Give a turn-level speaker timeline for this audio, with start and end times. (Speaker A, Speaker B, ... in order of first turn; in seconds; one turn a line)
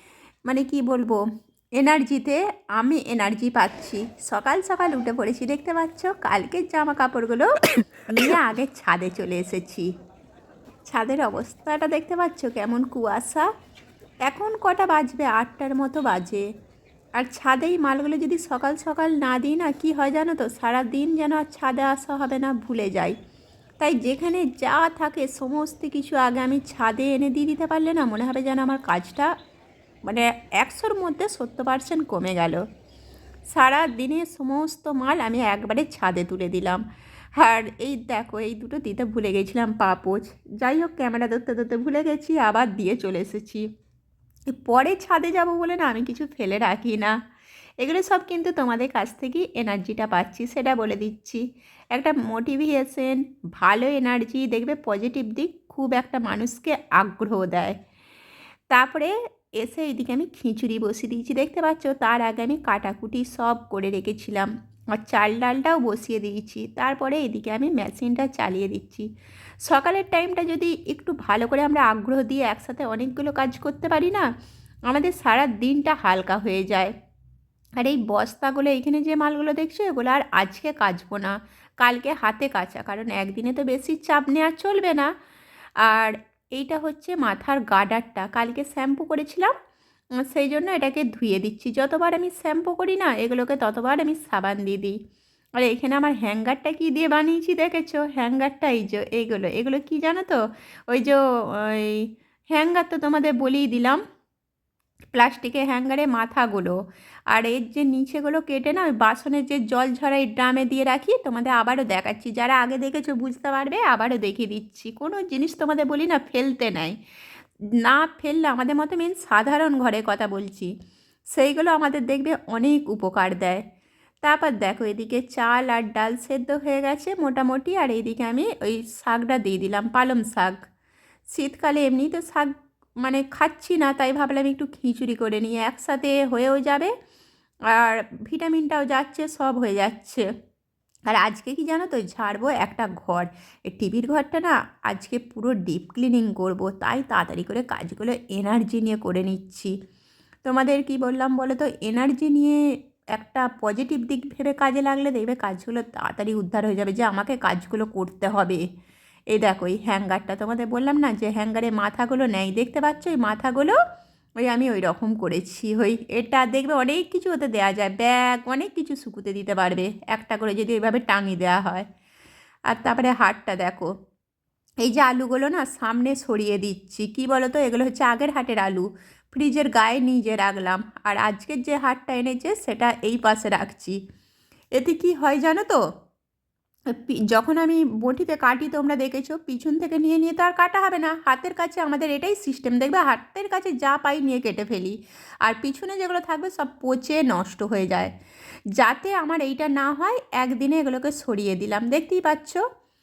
Speaker A: 0.5-1.2
Speaker A: 1.8-7.5
Speaker A: 8.1-9.9
Speaker A: 10.8-13.4
Speaker A: 14.2-16.4
Speaker A: 17.2-23.1
Speaker A: 23.8-29.3
Speaker A: 30.0-32.6
Speaker A: 33.5-36.8
Speaker A: 37.4-43.7
Speaker A: 44.5-47.2
Speaker A: 47.8-57.8
Speaker A: 58.7-69.1
Speaker A: 69.7-74.2
Speaker A: 74.9-76.9
Speaker A: 77.8-85.1
Speaker A: 85.8-89.5
Speaker A: 90.2-95.0
Speaker A: 95.6-104.0
Speaker A: 105.1-106.8
Speaker A: 107.3-117.0
Speaker A: 117.8-120.7
Speaker A: 121.3-123.6
Speaker A: 124.2-130.7
Speaker A: 131.3-136.9
Speaker A: 137.7-140.2
Speaker A: 141.1-149.8
Speaker A: 150.4-152.6
Speaker A: 153.1-158.6
Speaker A: 159.3-163.8
Speaker A: 164.4-171.8
Speaker A: 172.7-173.9
Speaker A: 174.8-184.0
Speaker A: 184.8-185.8
Speaker A: 186.9-198.1
Speaker A: 198.8-202.6